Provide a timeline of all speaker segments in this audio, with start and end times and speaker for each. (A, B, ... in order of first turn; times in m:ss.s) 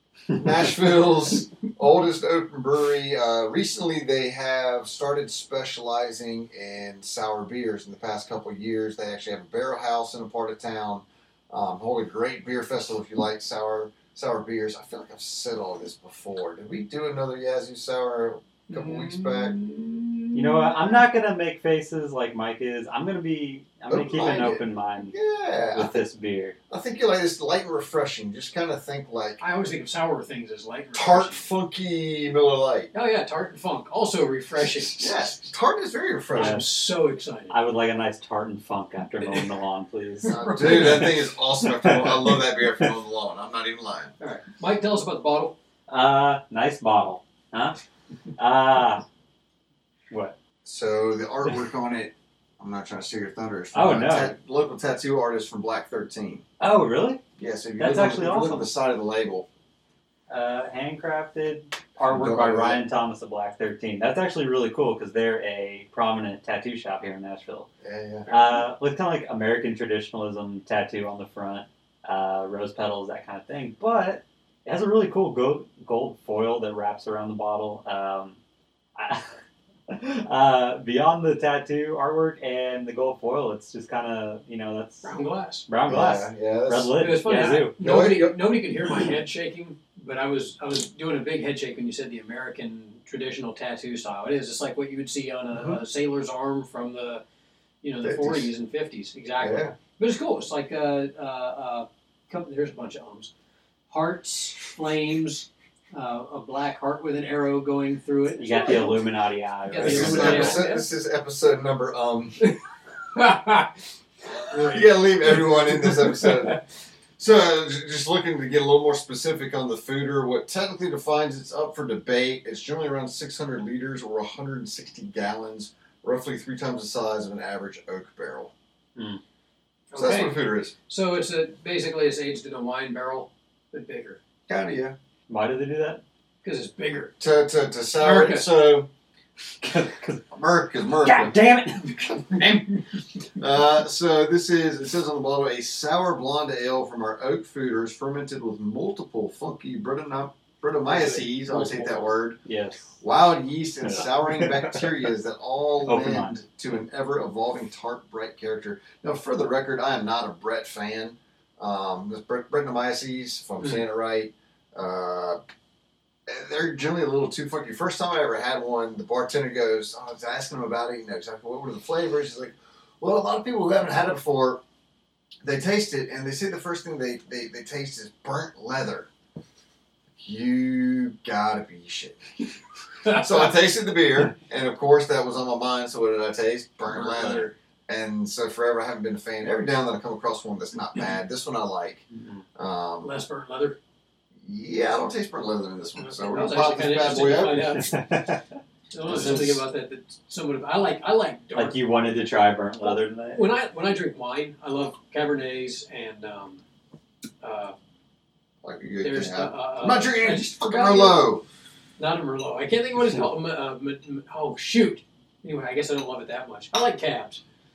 0:00.4-0:19.5 A
0:18.7-0:20.9 B
0:20.3-0:25.1 C
0:23.9-0:25.9 A
0:25.7-0:26.6 C
0:26.7-0:29.4 A
0:29.4-0:31.4 B
0:30.9-0:32.9 A
0:32.9-0:35.5 B
0:34.8-0:36.6 A
0:36.3-0:37.6 B
0:36.4-0:36.7 C
0:37.5-0:41.1 C
0:39.2-0:39.5 B
0:40.2-0:41.1 B
0:40.3-0:44.1 A
0:41.6-0:42.9 C
0:44.2-0:45.5 B
0:45.9-0:47.8 C
0:48.4-0:49.0 C
0:50.1-0:50.4 C
0:50.6-0:56.4 A
0:53.7-0:54.3 C
0:56.6-0:57.2 C
0:57.4-0:59.4 A
0:57.8-0:58.7 C
1:00.3-1:07.7 C
1:02.0-1:02.8 A
1:07.8-1:08.3 A
1:08.3-1:08.6 B
1:08.3-1:18.4 C
1:19.0-1:19.2 C
1:19.9-1:25.1 C
1:25.0-1:25.7 B
1:25.7-1:27.8 C
1:25.9-1:27.0 A
1:27.0-1:37.2 B
1:27.8-1:29.1 A
1:35.5-1:35.8 A
1:37.8-1:43.3 B
1:38.0-1:38.5 A
1:39.4-1:39.7 A
1:43.9-1:49.1 B
1:48.4-1:50.6 C
1:49.7-1:50.9 B
1:49.8-1:52.4 A
1:53.1-1:53.7 B
1:54.5-1:56.6 B
1:54.6-1:56.6 A
1:57.2-2:08.5 A
2:09.9-2:14.2 B
2:09.9-2:10.7 A
2:14.5-2:15.0 A
2:15.3-2:16.0 C
2:16.4-2:17.1 B
2:17.2-2:18.9 A
2:18.0-2:18.5 B
2:19.6-2:20.2 C
2:20.3-2:21.3 A
2:21.0-2:22.6 C
2:22.3-2:22.6 A
2:23.4-2:32.4 A
2:30.8-2:32.1 B
2:32.4-2:33.0 C
2:33.0-2:45.4 A
2:33.8-2:34.9 C
2:35.8-2:36.4 C
2:46.3-2:54.6 A
2:55.4-2:59.1 A
3:00.2-3:02.2 A
3:03.0-3:03.5 B
3:03.1-3:13.1 A
3:06.9-3:07.5 B
3:12.1-3:12.4 C
3:13.0-3:13.8 B
3:14.4-3:17.8 A
3:16.0-3:17.9 B
3:17.6-3:18.4 C
3:18.9-3:21.8 B
3:19.1-3:19.6 A
3:21.5-3:23.5 C
3:22.8-3:26.6 B
3:27.4-3:27.7 B
3:28.6-3:31.4 A
3:29.0-3:31.3 B
3:32.0-3:37.4 B